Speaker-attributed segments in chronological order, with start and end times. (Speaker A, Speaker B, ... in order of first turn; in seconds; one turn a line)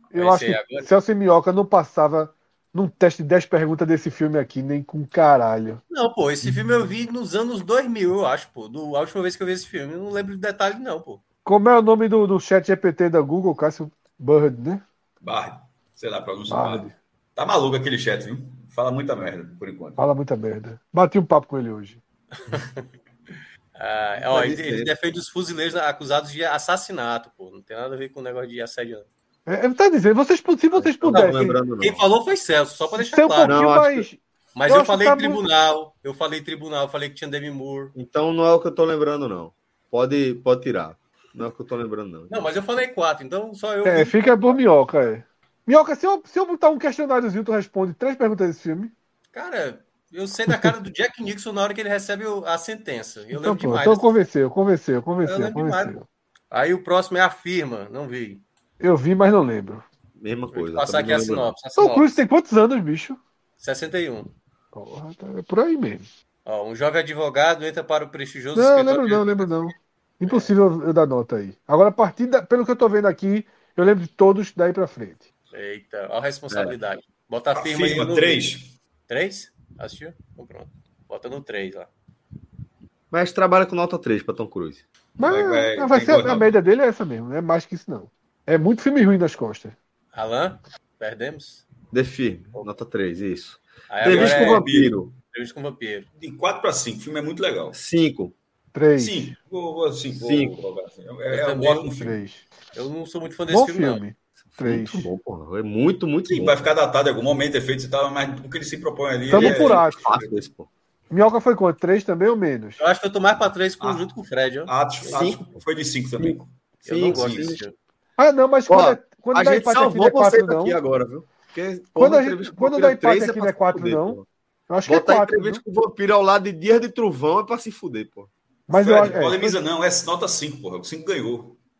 Speaker A: 0.1-5.8
Speaker B: 0.1-0.9
Speaker B: 5.9-11.2
Speaker A: 11.4-14.8
Speaker C: 15.2-20.1
Speaker A: 16.5-16.9
Speaker A: 20.0-22.0
Speaker B: 22.4-22.9
Speaker B: 23.8-29.1
Speaker D: 24.3-24.9
Speaker A: 29.4-31.6
Speaker D: 30.7-32.0
Speaker B: 31.1-33.6
Speaker A: 32.9-35.4
Speaker D: 33.4-34.0
Speaker B: 34.5-37.9
Speaker D: 37.9-42.5
Speaker B: 42.3-44.6
Speaker A: 43.8-48.9
Speaker B: 49.3-54.1
Speaker A: 50.5-50.7
Speaker A: 53.3-56.0
Speaker B: 55.2-56.0
Speaker B: 56.5-58.4
Speaker A: 58.8-59.8
Speaker D: 60.2-61.5
Speaker B: 60.5-62.2
Speaker A: 61.8-63.2
Speaker B: 63.6-64.3
Speaker A: 64.7-66.0
Speaker B: 66.4-69.5
Speaker A: 68.5-75.2
Speaker B: 70.2-70.5
Speaker B: 75.5-78.5
Speaker C: 77.5-78.7
Speaker B: 79.1-81.9
Speaker D: 83.1-84.8
Speaker C: 85.2-86.5
Speaker A: 85.2-89.8
Speaker B: 90.1-91.6
Speaker D: 91.9-95.1
Speaker B: 93.9-94.7
Speaker C: 94.0-95.0
Speaker B: 95.3-96.1
Speaker C: 96.2-97.8
Speaker D: 97.7-98.3
Speaker A: 98.7-99.3
Speaker C: 99.0-102.2
Speaker D: 100.2-100.6
Speaker B: 101.3-101.9
Speaker A: 102.0-102.4
Speaker B: 102.7-104.0
Speaker A: 103.5-105.1
Speaker D: 104.4-106.5
Speaker C: 106.3-110.4
Speaker A: 109.3-110.1
Speaker D: 109.3-110.7
Speaker A: 111.1-112.8
Speaker B: 112.8-115.4
Speaker C: 113.8-114.1
Speaker C: 114.7-116.5
Speaker D: 116.2-117.6
Speaker B: 116.8-117.7
Speaker C: 117.0-117.6
Speaker A: 118.2-120.8
Speaker D: 118.7-124.2
Speaker A: 122.0-125.6
Speaker D: 124.8-128.3
Speaker A: 128.7-129.6
Speaker C: 128.7-131.6